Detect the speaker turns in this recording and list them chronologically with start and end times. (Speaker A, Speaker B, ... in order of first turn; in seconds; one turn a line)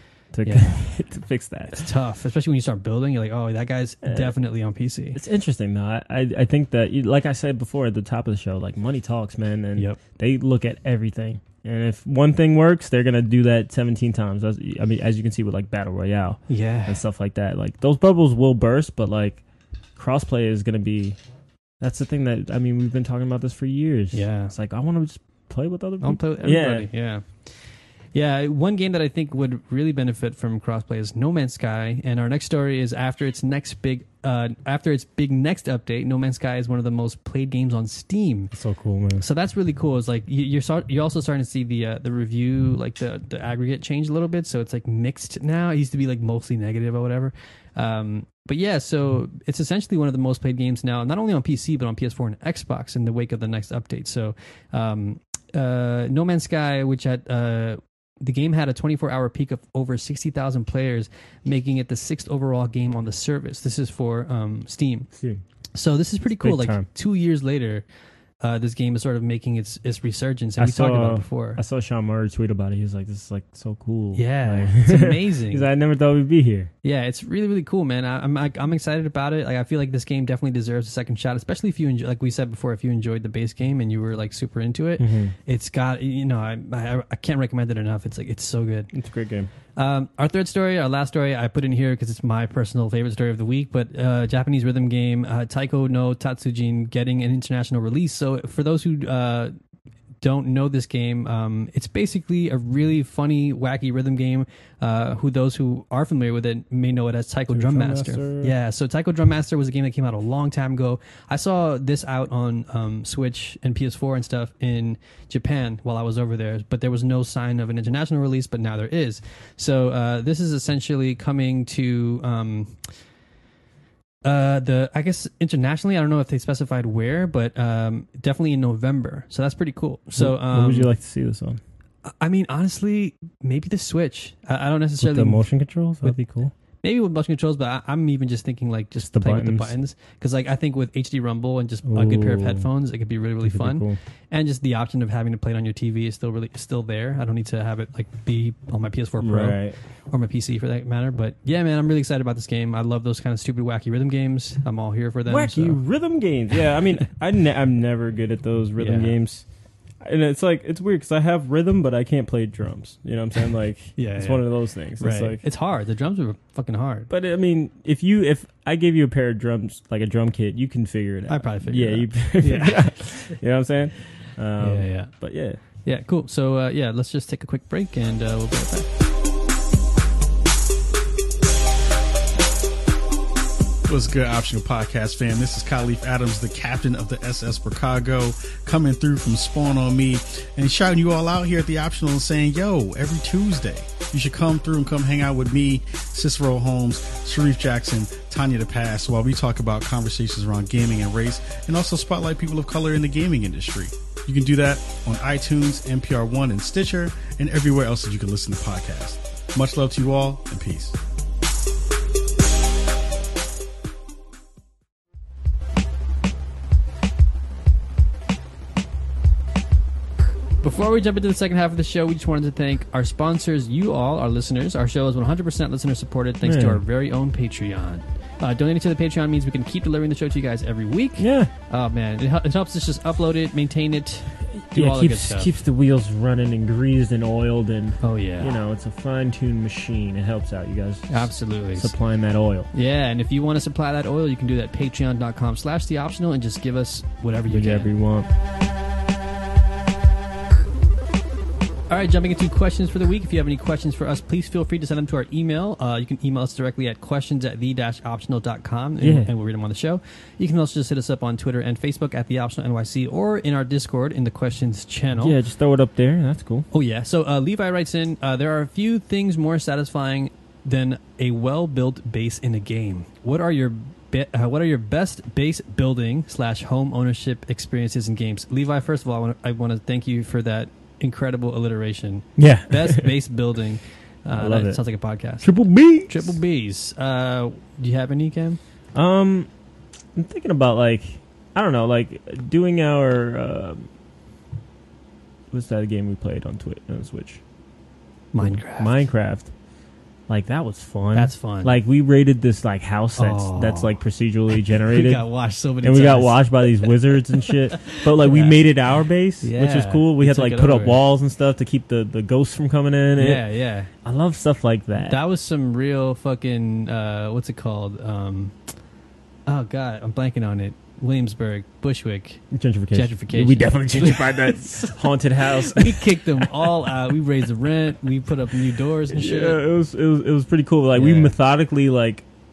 Speaker A: 0.3-1.8
Speaker B: 0.5-0.8
Speaker B: 1.7-5.2
Speaker A: 4.0-4.3
Speaker A: 5.2-19.4
Speaker B: 16.5-17.0
Speaker A: 20.0-21.2
Speaker A: 21.8-26.9
Speaker B: 24.1-24.5
Speaker B: 26.0-38.5
Speaker A: 38.5-39.2
Speaker B: 39.2-65.1
Speaker B: 65.8-67.8
Speaker A: 66.4-66.9
Speaker B: 68.4-71.6
Speaker A: 70.6-76.7
Speaker B: 74.2-75.7
Speaker B: 76.8-88.9
Speaker A: 85.0-85.3
Speaker A: 88.9-89.5
Speaker B: 89.8-99.5
Speaker B: 100.2-122.9
Speaker A: 107.5-108.5
Speaker B: 124.2-130.9
Speaker A: 130.2-131.6
Speaker B: 132.1-135.4
Speaker A: 135.0-136.5
Speaker B: 136.8-149.6
Speaker A: 139.0-139.7
Speaker A: 141.8-142.7
Speaker A: 143.4-144.0
Speaker A: 149.2-149.8
Speaker B: 150.1-155.8
Speaker A: 155.3-159.4
Speaker B: 158.8-159.2
Speaker A: 160.0-165.4
Speaker B: 164.0-167.1
Speaker A: 167.1-175.6
Speaker B: 171.3-172.9
Speaker B: 174.6-175.1
Speaker B: 175.8-178.9
Speaker C: 183.9-211.0
Speaker B: 220.6-235.5
Speaker A: 226.4-226.8
Speaker A: 231.2-231.5
Speaker A: 234.7-242.7
Speaker B: 238.0-238.6
Speaker B: 241.1-241.9
Speaker B: 242.7-247.9
Speaker A: 247.5-248.3
Speaker B: 251.9-265.4
Speaker A: 259.0-259.3
Speaker A: 265.2-266.7
Speaker B: 266.7-285.5
Speaker A: 282.4-283.1
Speaker A: 284.4-284.8
Speaker A: 285.4-286.3
Speaker B: 286.0-288.6
Speaker A: 288.9-289.5
Speaker A: 290.1-293.9
Speaker A: 295.5-297.4
Speaker B: 298.3-299.0
Speaker A: 298.4-299.5
Speaker A: 300.3-305.2
Speaker B: 301.1-301.8
Speaker B: 303.2-304.0
Speaker B: 304.8-308.6
Speaker A: 305.8-313.4
Speaker B: 309.4-311.0
Speaker B: 313.2-313.9
Speaker A: 314.1-315.2
Speaker B: 315.0-318.6
Speaker B: 319.5-329.6
Speaker A: 322.5-326.7
Speaker A: 329.1-332.2
Speaker B: 330.9-331.4